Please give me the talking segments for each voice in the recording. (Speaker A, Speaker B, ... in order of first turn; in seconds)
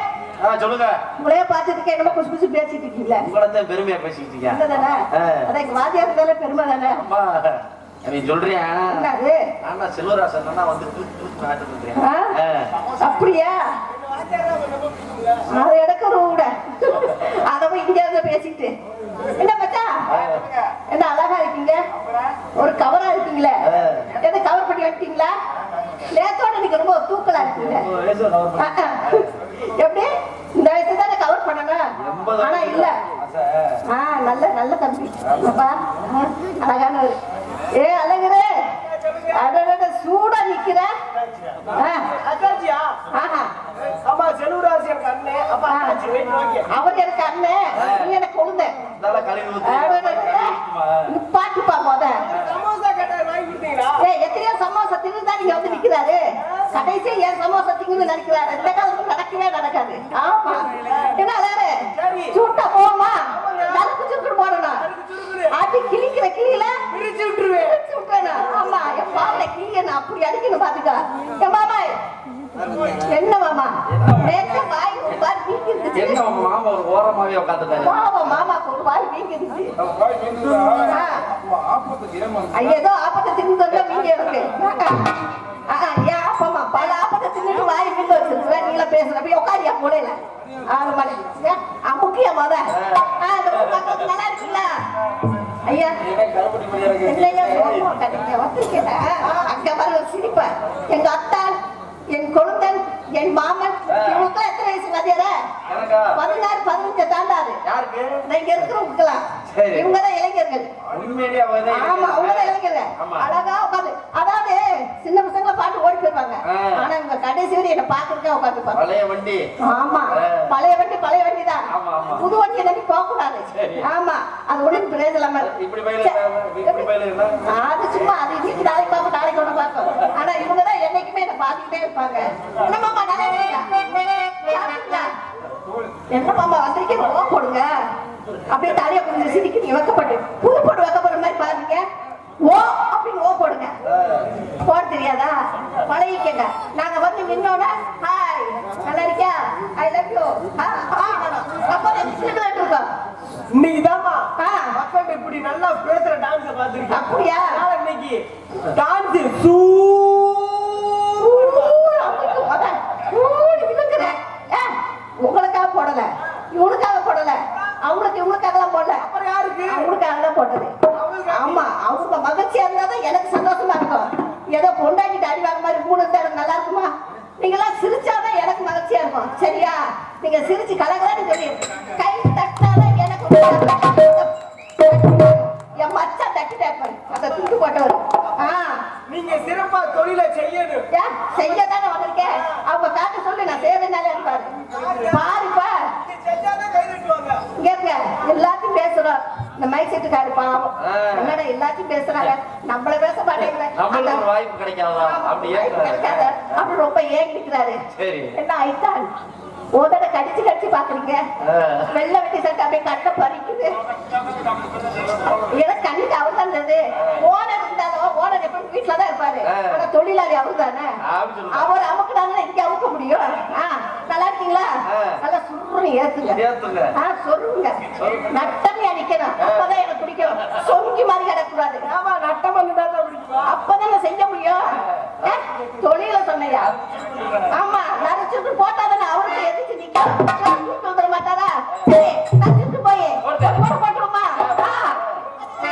Speaker A: 0.4-1.0, 3.2-4.6, 5.1-5.4, 6.9-9.0, 9.6-12.7, 20.1-20.4, 23.6-24.1, 27.4-29.2, 32.0-33.8, 35.2-35.5, 47.8-48.1, 49.0-51.1, 73.9-74.4, 75.9-78.0, 80.1-80.4, 92.7-93.9, 96.0-97.9, 103.9-104.2, 105.7-106.2, 107.6-108.2, 109.5-109.9, 110.9-113.2, 116.5-116.8, 118.7-119.5, 120.1-120.4, 121.7-122.3, 123.5-123.8, 125.4-127.4, 143.9-144.2, 200.8-201.4, 203.4-206.5, 207.9-208.3, 211.4-211.9, 217.0-217.2, 219.5-219.8, 221.0-221.7, 224.9-225.2, 226.3-226.9, 228.0-228.3, 229.4-229.7, 236.8-237.5, 243.2-243.6, 244.4-245.0
Speaker B: 1.2-3.2, 4.5-7.0, 8.9-9.4, 12.0-12.3, 13.0-13.6, 15.5-18.7, 19.4-20.0, 20.9-21.8, 22.6-23.6, 24.1-25.3, 26.1-27.9, 28.6-31.8, 32.4-33.0, 33.9-37.2, 37.7-38.5, 39.3-40.9, 41.8-42.1, 43.1-43.5, 45.7-46.0, 46.7-48.7, 49.6-52.2, 54.0-64.9, 65.5-66.8, 67.6-72.0, 73.1-76.2, 77.8-79.7, 80.8-81.2, 82.5-85.1, 85.7-94.8, 95.7-96.0, 97.0-101.6, 102.1-105.3, 106.1-107.6, 108.2-110.7, 111.7-118.8, 119.6-121.6, 122.1-126.9, 127.5-133.8, 134.4-135.1, 136.1-137.7, 138.5-141.8, 142.4-143.7, 144.6-152.9, 154.4-154.7, 156.9-157.6, 161.2-169.1, 169.7-170.8, 171.3-188.8, 190.9-194.5, 195.1-195.9, 197.5-204.2, 205.0-207.8, 208.3-209.1, 209.7-211.2, 211.9-213.7, 215.4-220.9, 221.5-226.4, 226.9-231.8, 233.4-236.7, 237.5-245.1
Speaker C: 14.0-15.2, 38.8-39.4, 42.1-43.0, 44.0-46.7, 52.3-54.0, 61.9-62.4, 63.3-63.9, 64.8-65.5, 66.9-67.7, 153.5-158.2, 158.7-162.0, 169.0-169.9, 170.9-171.6, 189.1-190.8, 194.6-195.2, 196.0-197.4, 231.8-233.5